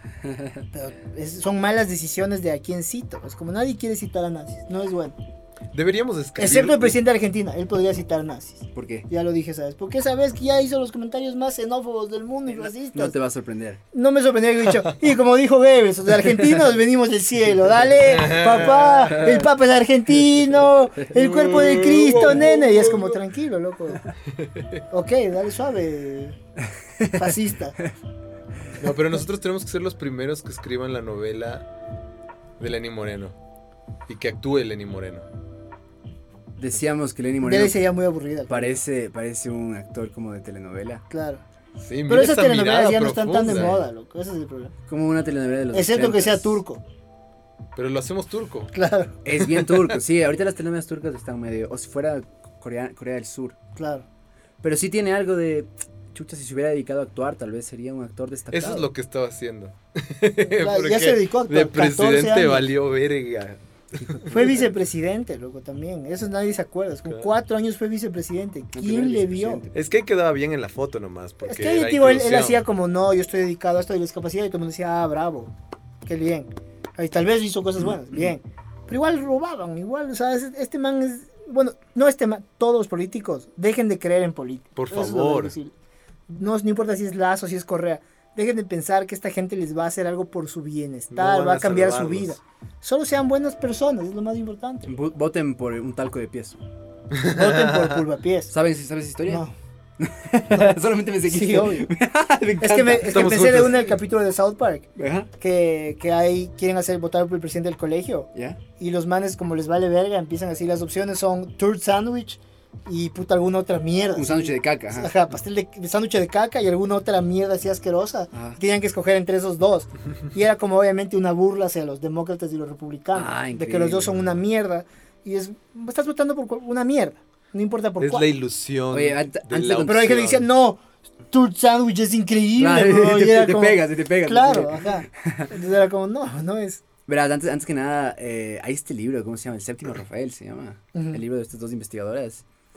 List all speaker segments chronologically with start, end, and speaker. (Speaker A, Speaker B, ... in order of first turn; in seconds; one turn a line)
Speaker A: 0.2-0.6
Speaker B: 0.7-5.2
Speaker C: 5.7-7.0
Speaker B: 6.4-13.2
Speaker A: 8.7-9.1
Speaker A: 12.5-13.8
Speaker B: 13.9-24.1
Speaker C: 18.2-18.8
Speaker A: 18.9-19.5
Speaker C: 21.1-23.2
Speaker B: 24.9-26.4
Speaker A: 27.0-27.9
Speaker B: 27.1-27.8
Speaker C: 28.8-31.7
Speaker C: 32.6-33.3
Speaker C: 34.1-35.2
Speaker A: 36.6-37.8
Speaker B: 37.4-38.8
Speaker A: 38.5-41.0
Speaker B: 41.1-41.4
Speaker C: 41.8-43.8
Speaker B: 42.1-44.7
Speaker A: 43.5-43.8
Speaker A: 44.9-46.6
Speaker B: 45.7-46.8
Speaker C: 47.8-48.7
Speaker B: 48.7-49.2
Speaker A: 49.2-53.6
Speaker B: 53.8-54.0
Speaker A: 54.6-58.9
Speaker C: 58.5-64.3
Speaker B: 60.5-62.7
Speaker B: 64.3-69.6
Speaker A: 68.7-69.8
Speaker C: 69.7-72.6
Speaker B: 71.5-75.5
Speaker B: 76.1-85.7
Speaker C: 84.8-85.5
Speaker B: 86.3-94.9
Speaker C: 91.1-92.4
Speaker A: 94.9-96.6
Speaker C: 97.1-98.0
Speaker B: 97.3-98.5
Speaker A: 98.5-99.5
Speaker B: 99.3-99.5
Speaker A: 100.0-103.8
Speaker B: 100.5-100.8
Speaker B: 101.3-101.9
Speaker B: 102.6-128.3
Speaker C: 103.1-103.9
Speaker A: 105.0-105.3
Speaker A: 108.3-108.6
Speaker A: 114.2-115.1
Speaker A: 118.3-118.6
Speaker A: 123.1-124.4
Speaker C: 128.0-130.4
Speaker A: 128.9-130.4
Speaker B: 129.8-136.8
Speaker A: 132.6-135.5
Speaker A: 137.1-142.4
Speaker B: 140.9-141.2